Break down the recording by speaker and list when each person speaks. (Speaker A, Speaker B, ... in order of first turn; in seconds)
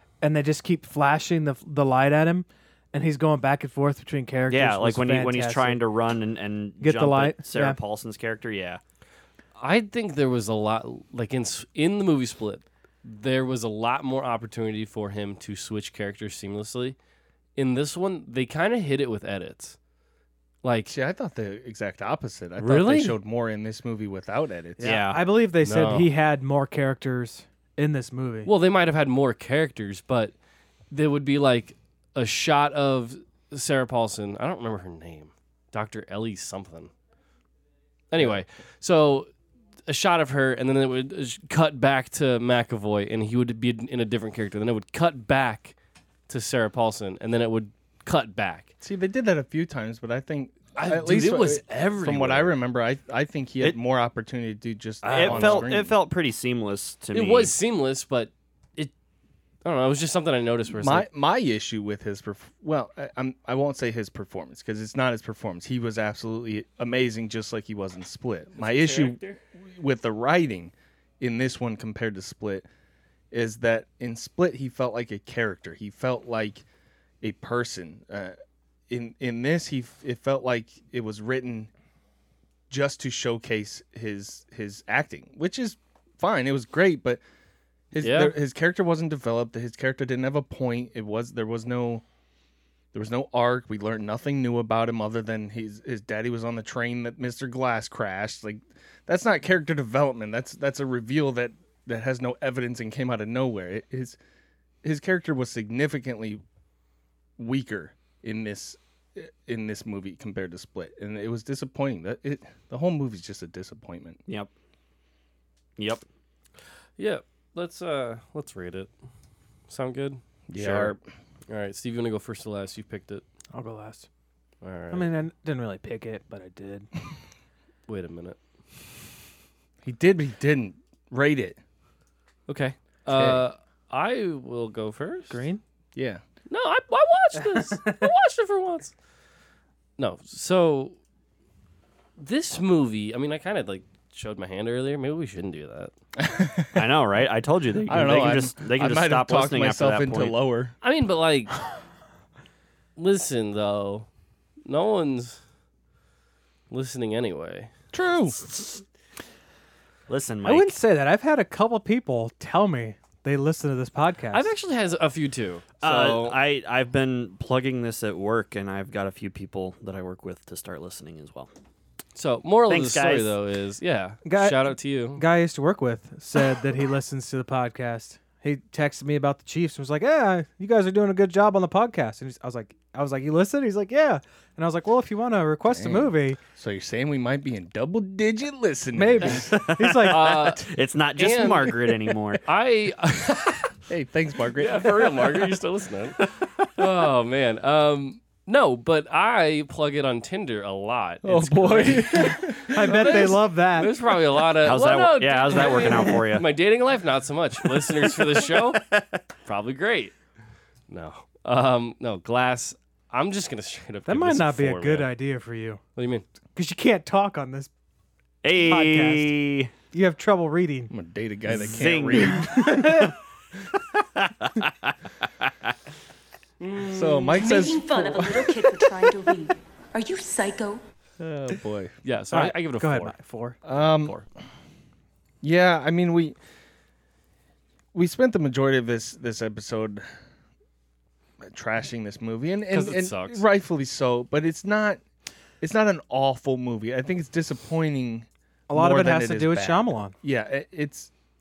Speaker A: 0.2-5.8, 6.8-7.8, 24.8-28.5, 123.5-124.1, 124.9-126.9, 135.3-135.6, 137.5-138.1, 160.4-164.5, 174.2-186.4, 188.9-190.4, 202.3-203.9, 214.1-215.8, 216.6-217.7, 218.5-219.3, 219.9-220.9, 222.4-223.1, 232.3-233.6, 248.7-250.1
Speaker B: 4.5-8.8, 24.8-25.2, 55.0-57.5, 115.8-116.0, 146.7-150.3, 158.5-158.8, 160.1-160.8, 165.8-171.5, 172.7-173.3, 189.5-192.4, 204.6-206.5, 207.9-209.2, 218.4-219.7, 221.6-223.1, 224.2-224.9
Speaker C: 9.6-17.0, 17.6-19.8, 20.6-20.9, 22.6-23.2, 25.6-26.1, 28.5-30.3, 30.9-36.9, 38.1-39.3, 39.9-45.8, 46.3-48.7, 50.8-52.6, 55.1-55.7, 57.1-58.9, 59.6-61.1, 68.6-69.4, 88.0-88.3, 117.0-118.9, 119.7-123.2, 124.6-125.1, 127.9-128.4, 132.5-135.4, 136.5-138.9, 140.0-141.0, 142.2-145.9, 150.8-151.7, 153.0-154.1, 154.7-155.4, 156.7-157.7, 164.3-166.4, 172.2-175.2, 190.0-193.7, 194.6-208.9, 209.4-210.1, 210.9-215.1, 216.0-216.2, 226.6-227.7, 232.0-233.2, 233.7-234.2, 242.7-243.4
Speaker D: 20.9-24.9, 38.2-38.4, 48.8-55.9, 60.7-72.7, 73.3-76.7, 77.2-78.4, 78.9-81.7, 82.7-87.2, 87.9-92.0, 92.9-104.2, 104.8-106.4, 107.4-114.2, 120.5-121.0, 129.8-131.6, 133.1-133.4, 136.0-136.2, 146.2-146.9, 147.9-150.8, 157.9-158.4, 185.7-189.5, 193.9-195.3, 201.2-203.3, 220.9-222.9, 226.9-228.4, 231.2-231.9, 233.7-234.2, 235.4-236.4, 237.9-240.1, 241.4-245.0, 245.6-251.1
Speaker E: 227.4-230.8